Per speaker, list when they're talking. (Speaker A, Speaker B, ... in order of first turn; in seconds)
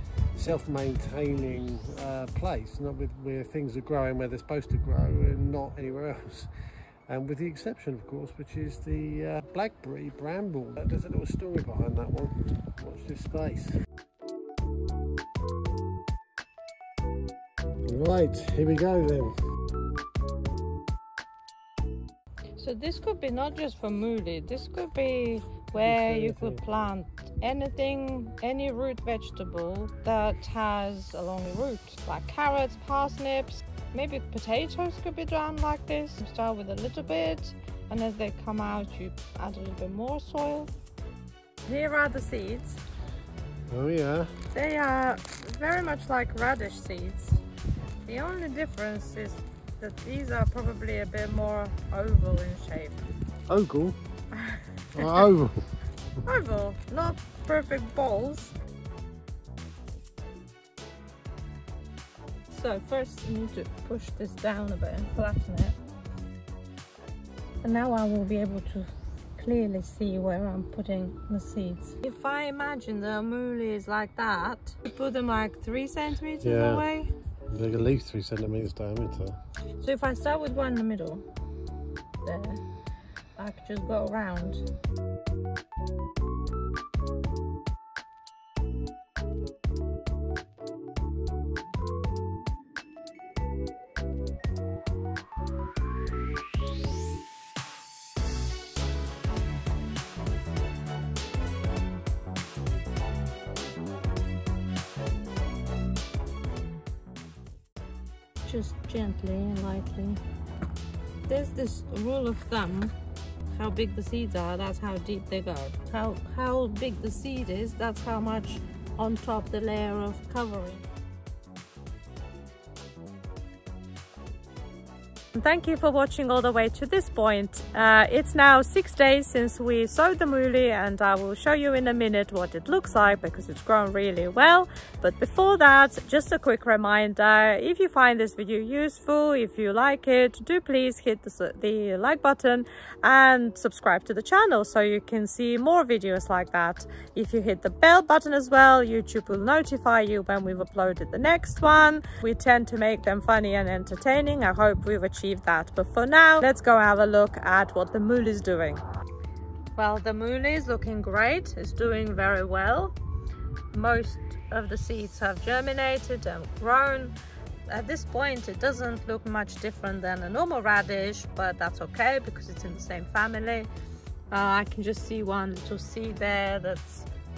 Speaker A: 0.3-6.5, 7.1-13.7, 17.9-19.3, 25.8-26.6, 43.7-44.3, 53.5-54.0, 54.9-55.6, 76.4-76.8, 77.5-79.4
Speaker B: 22.6-40.7, 41.6-42.8, 44.5-47.4, 48.0-53.0, 54.3-55.3, 56.2-58.5, 62.5-65.8, 67.6-77.1, 79.8-81.2, 82.2-82.6, 83.4-84.6, 108.4-110.2, 111.3-112.9, 113.5-120.8, 125.3-158.8, 159.8-162.9, 163.7-167.1, 167.7-173.7, 174.3-177.1